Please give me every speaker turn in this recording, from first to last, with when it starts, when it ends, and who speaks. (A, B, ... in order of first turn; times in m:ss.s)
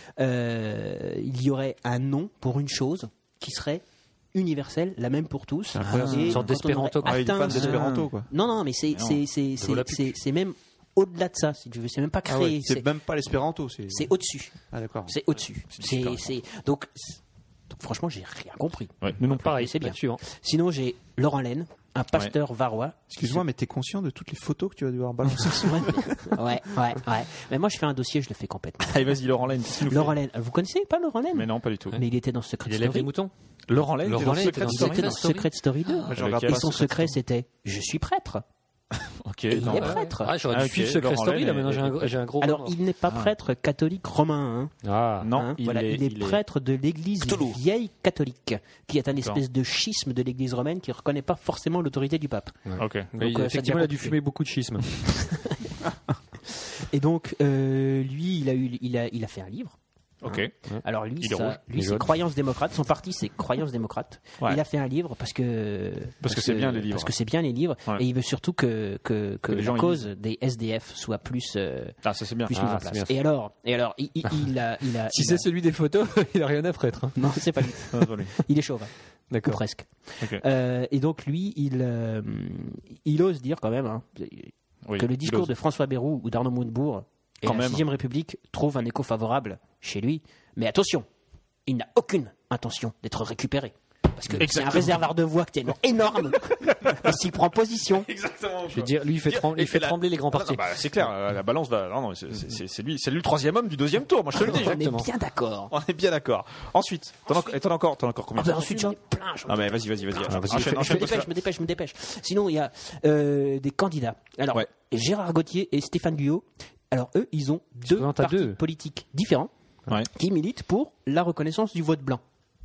0:00.2-0:12.8 A
0:05.7-0:06.4 B
0:05.8-0:06.4 C
0:06.0-0:07.6 D
0:07.0-0:08.3 B
0:07.5-0:08.1 C
0:08.9-0:09.2 C
0:09.6-0:10.1 D
0:12.3-0:14.1 B
0:13.9-0:17.2 A
0:14.7-0:15.1 B
0:15.7-0:16.3 C
0:17.7-0:23.4 A
0:19.0-0:19.6 C
0:19.2-0:20.2 D
0:23.2-0:26.4 B
0:25.4-0:29.2 A
0:28.8-0:30.2 C
0:29.7-0:33.1 A
0:31.3-0:32.0 C
0:32.6-0:33.3 D
0:33.7-0:35.2 C
0:34.0-0:35.5 D
0:34.1-0:38.4 A
0:36.1-0:37.1 C
0:36.1-0:37.0 B
0:39.0-0:42.1 C
0:39.5-0:40.3 A
0:39.6-0:42.7 D
0:42.4-0:44.7 A
0:44.8-0:45.3 D
0:45.2-0:46.4 C
0:45.3-0:52.6 A
0:47.2-0:47.6 C
0:49.2-0:49.4 C
0:52.6-0:54.9 D
0:52.8-0:53.1 C
0:53.2-0:54.2 A
0:55.0-0:55.7 A
0:56.8-0:59.7 A
1:00.2-1:00.5 C
1:00.3-1:11.9 A
1:01.2-1:01.6 C
1:01.7-1:02.1 D
1:06.2-1:07.1 C
1:09.5-1:10.1 C
1:12.0-1:12.8 C
1:12.5-1:15.4 A
1:12.5-1:13.1 D
1:15.1-1:17.2 D
1:17.2-1:18.9 A
1:17.9-1:18.4 C
1:19.3-1:19.6 D
1:19.4-1:31.0 A
1:24.8-1:25.5 C
1:27.4-1:27.8 C
1:31.6-1:38.1 A
1:34.3-1:35.1 C
1:38.0-1:44.8 C
1:38.7-1:40.6 D
1:44.3-1:45.7 A
1:44.4-1:45.1 D
1:45.7-1:51.3 C
1:48.4-1:59.5 A
1:50.3-1:51.2 D
1:57.9-1:58.6 D
2:00.1-2:02.2 A